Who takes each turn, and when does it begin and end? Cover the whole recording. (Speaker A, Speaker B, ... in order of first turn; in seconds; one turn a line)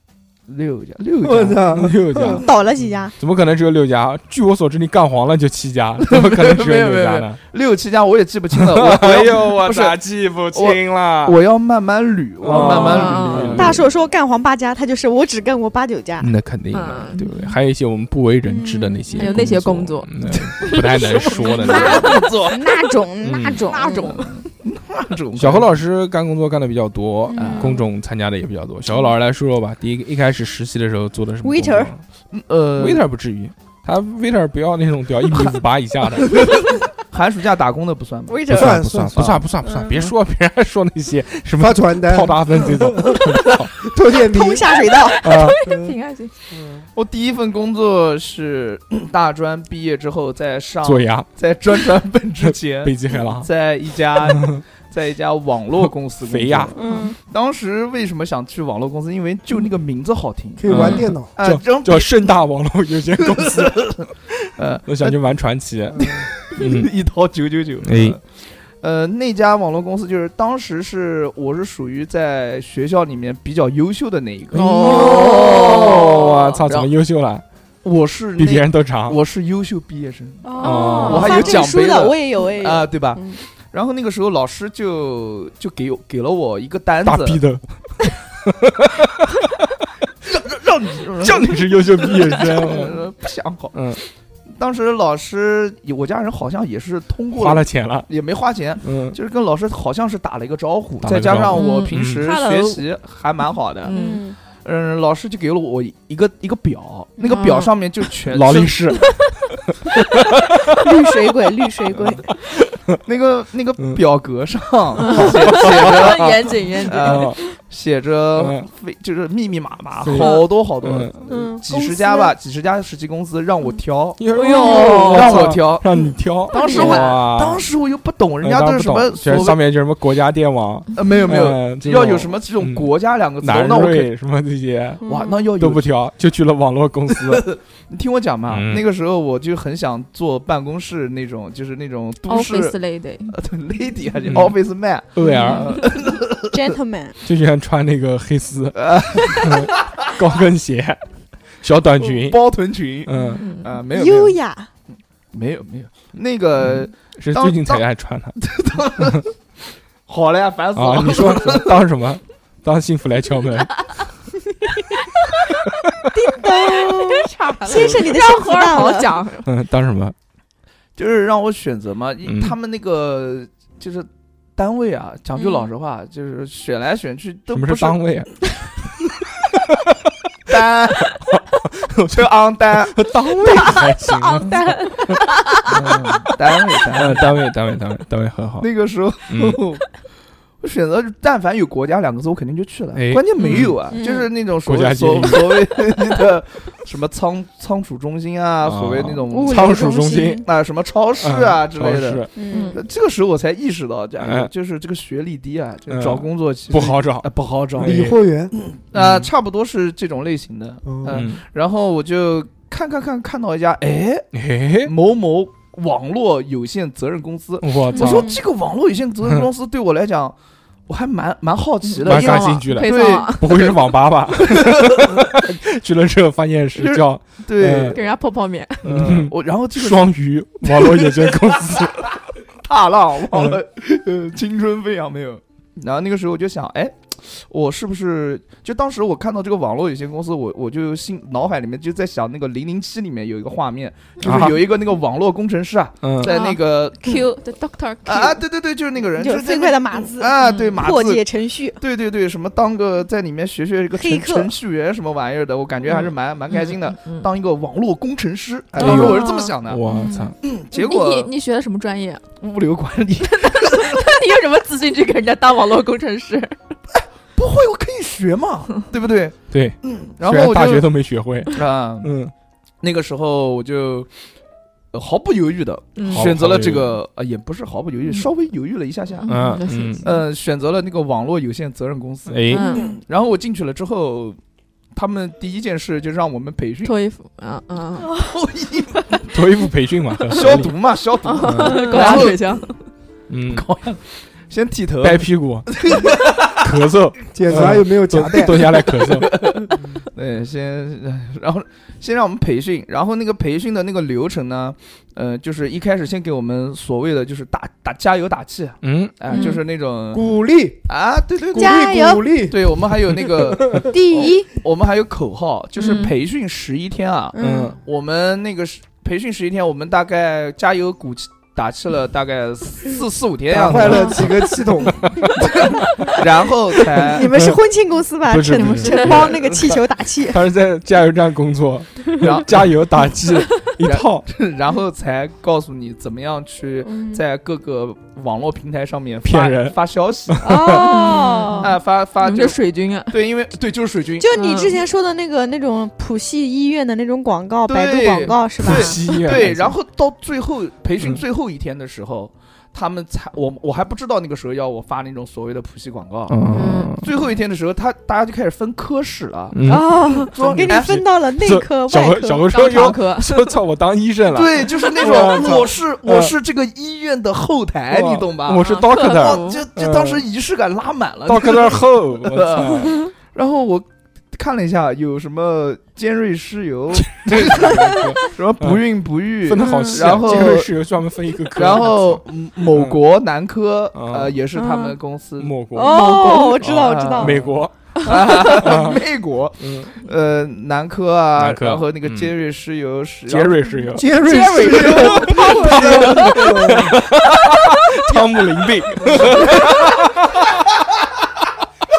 Speaker A: 0.5-2.4
Speaker B: 1.2-2.5
Speaker C: 1.7-2.6
Speaker D: 2.2-3.2
Speaker C: 3.2-7.4
Speaker A: 6.0-10.0
Speaker C: 8.5-11.4
Speaker A: 10.5-13.8
Speaker C: 12.4-13.9
Speaker E: 12.5-13.8
Speaker D: 13.5-16.3
Speaker C: 16.2-22.2
Speaker E: 16.7-17.2
Speaker D: 18.4-19.6
Speaker E: 19.1-20.8
Speaker A: 20.3-22.9
Speaker D: 21.6-24.2
Speaker C: 23.2-23.6
Speaker E: 23.6-24.3
Speaker A: 24.0-25.7
Speaker C: 25.4-32.0
Speaker D: 27.3-27.9
Speaker A: 27.4-27.8
Speaker D: 31.4-31.9
Speaker A: 32.3-33.0
Speaker C: 32.8-36.6
Speaker A: 36.3-39.4
Speaker D: 38.3-38.8
Speaker B: 38.5-39.4
Speaker C: 38.5-43.8
Speaker D: 39.6-39.9
Speaker B: 41.6-44.9
Speaker D: 44.1-45.3
Speaker E: 44.8-46.3
Speaker C: 45.2-45.6
Speaker B: 45.6-45.9
Speaker B: 46.5-46.8
Speaker A: 46.9-62.4
Speaker C: 50.8-51.9
Speaker C: 52.8-53.5
Speaker C: 54.3-54.6
Speaker C: 56.2-57.1
Speaker D: 56.8-57.2
Speaker B: 60.6-61.3
Speaker C: 60.7-64.1
Speaker A: 63.2-65.2
Speaker C: 64.9-66.9
Speaker A: 65.9-76.8
Speaker C: 67.8-68.2
Speaker E: 74.5-76.9
Speaker C: 74.5-77.4
Speaker D: 74.8-76.0
Speaker A: 77.8-87.4
Speaker C: 78.4-79.2
Speaker D: 80.4-83.4
Speaker C: 80.6-81.7
Speaker E: 81.0-81.6
Speaker C: 87.0-87.8
Speaker C: 88.3-89.5
Speaker A: 90.2-104.0
Speaker C: 91.2-93.1
Speaker C: 93.7-94.0
Speaker C: 97.3-98.1
Speaker C: 98.8-99.2
Speaker C: 101.0-102.3
Speaker E: 101.5-102.8
Speaker E: 103.8-104.3
Speaker D: 103.9-104.4
Speaker A: 104.5-109.0
Speaker E: 107.2-107.7
Speaker C: 108.3-109.1
Speaker C: 109.9-111.3
Speaker D: 110.7-112.3
Speaker C: 112.0-113.0
Speaker A: 113.0-116.3
Speaker E: 115.0-117.4
Speaker C: 115.5-116.3
Speaker A: 116.9-129.7
Speaker C: 116.9-117.4
Speaker C: 118.4-118.7
Speaker C: 120.0-121.2
Speaker E: 120.2-120.5
Speaker D: 121.2-122.3
Speaker C: 124.2-127.7
Speaker E: 124.3-125.5
Speaker E: 126.5-127.2
Speaker D: 126.6-127.0
Speaker C: 128.4-137.5
Speaker A: 130.9-134.1
Speaker A: 135.0-135.9
Speaker D: 135.1-135.4
Speaker A: 137.1-146.7
Speaker C: 138.5-138.9
Speaker E: 142.3-143.3
Speaker C: 144.3-144.6
Speaker C: 145.1-145.9
Speaker D: 145.2-145.6
Speaker E: 145.2-145.7
Speaker D: 146.4-147.2
Speaker C: 147.2-151.0
Speaker A: 148.8-150.1
Speaker C: 151.6-153.6
Speaker A: 152.0-154.4
Speaker E: 153.2-153.7
Speaker D: 153.9-154.7
Speaker A: 155.3-157.8
Speaker C: 156.7-158.4
Speaker A: 158.4-159.3
Speaker A: 160.1-161.8
Speaker C: 160.7-164.1
Speaker C: 165.5-166.3
Speaker D: 166.1-169.1
Speaker E: 166.7-169.5
Speaker C: 169.4-170.2
Speaker A: 170.9-178.3
Speaker C: 172.2-172.6
Speaker D: 175.4-175.7
Speaker C: 177.5-178.3
Speaker C: 179.5-180.1
Speaker A: 180.5-181.2
Speaker C: 181.3-188.7
Speaker A: 182.1-183.8
Speaker E: 184.2-185.6
Speaker A: 185.7-187.4
Speaker A: 188.6-189.9
Speaker C: 189.3-189.6
Speaker A: 190.6-214.3
Speaker C: 192.9-193.8
Speaker E: 193.4-193.8
Speaker D: 193.9-194.3
Speaker C: 194.5-195.7
Speaker C: 198.6-200.4
Speaker D: 199.3-200.4
Speaker C: 201.2-202.5
Speaker D: 202.4-202.8
Speaker E: 202.5-202.8
Speaker C: 204.2-204.5
Speaker C: 205.9-208.2
Speaker B: 207.8-208.5
Speaker C: 208.9-209.3
Speaker B: 210.8-211.2
Speaker C: 211.1-211.4
Speaker C: 214.3-214.9
Speaker A: 214.8-220.4
Speaker C: 217.6-218.4
Speaker D: 217.9-218.3
Speaker A: 220.9-223.8
Speaker E: 222.0-223.8
Speaker C: 222.0-228.0
Speaker A: 224.3-225.2
Speaker A: 226.8-228.0
Speaker E: 227.9-228.9
Speaker C: 228.8-232.1
Speaker A: 228.8-247.2
Speaker C: 244.2-244.7
Speaker C: 246.0-246.4
Speaker E: 246.2-248.4
Speaker A: 248.1-259.8
Speaker D: 249.2-251.8
Speaker E: 250.4-250.8
Speaker D: 253.9-254.5
Speaker E: 255.9-257.2
Speaker E: 258.8-259.5
Speaker C: 258.8-260.4
Speaker D: 259.9-260.3
Speaker A: 260.4-261.3
Speaker E: 260.7-262.3
Speaker A: 262.4-264.1
Speaker E: 263.3-266.6
Speaker A: 266.9-270.9
Speaker C: 269.5-272.3
Speaker A: 271.5-272.1
Speaker A: 272.8-274.1
Speaker A: 274.9-279.3
Speaker E: 275.9-276.3
Speaker C: 276.1-276.9
Speaker E: 279.2-280.2
Speaker C: 279.3-280.1
Speaker A: 280.0-284.4
Speaker C: 282.3-282.7
Speaker E: 282.5-283.0
Speaker A: 284.9-286.9
Speaker E: 286.8-288.2
Speaker A: 288.1-289.2
Speaker C: 289.3-290.8
Speaker A: 290.3-292.6
Speaker E: 291.2-292.8
Speaker C: 291.4-291.9
Speaker D: 291.8-292.2
Speaker C: 293.3-293.7
Speaker A: 293.5-296.7
Speaker C: 295.0-299.6
Speaker B: 297.3-298.8
Speaker A: 298.8-310.3
Speaker C: 308.8-309.2
Speaker E: 309.3-309.6
Speaker B: 310.1-310.9
Speaker A: 310.9-324.4
Speaker B: 311.5-314.0
Speaker D: 311.5-312.5
Speaker D: 313.8-314.5
Speaker E: 315.8-316.1
Speaker D: 317.3-317.8
Speaker C: 317.4-317.8
Speaker B: 323.5-325.2
Speaker D: 323.7-324.4
Speaker C: 325.0-325.3
Speaker A: 325.3-327.4
Speaker D: 326.9-330.4
Speaker C: 327.2-327.6
Speaker C: 328.3-334.3
Speaker E: 328.5-329.5
Speaker A: 332.2-332.8
Speaker A: 333.8-340.8
Speaker D: 336.8-337.2
Speaker C: 339.2-341.3
Speaker D: 340.4-341.8
Speaker E: 340.6-343.1
Speaker A: 341.6-344.3
Speaker D: 344.2-349.0
Speaker E: 344.3-344.8
Speaker A: 347.7-361.0
Speaker C: 348.6-349.8
Speaker C: 356.3-357.1
Speaker E: 356.5-356.9
Speaker C: 359.5-366.3
Speaker D: 359.6-362.7
Speaker E: 362.5-363.6
Speaker A: 364.3-380.8
Speaker C: 367.9-370.3
Speaker E: 368.5-369.6
Speaker C: 371.3-373.1
Speaker C: 377.0-378.9
Speaker C: 379.4-383.0
Speaker D: 379.6-380.1
Speaker A: 381.5-393.7
Speaker C: 383.9-384.4
Speaker D: 384.5-385.0
Speaker C: 385.4-387.8
Speaker D: 385.7-387.4
Speaker D: 388.0-388.7
Speaker C: 388.4-389.0
Speaker C: 389.6-389.9
Speaker C: 391.4-392.3
Speaker C: 393.3-400.7
Speaker B: 393.9-397.0
Speaker D: 394.3-396.0
Speaker A: 394.3-396.6
Speaker A: 399.1-399.7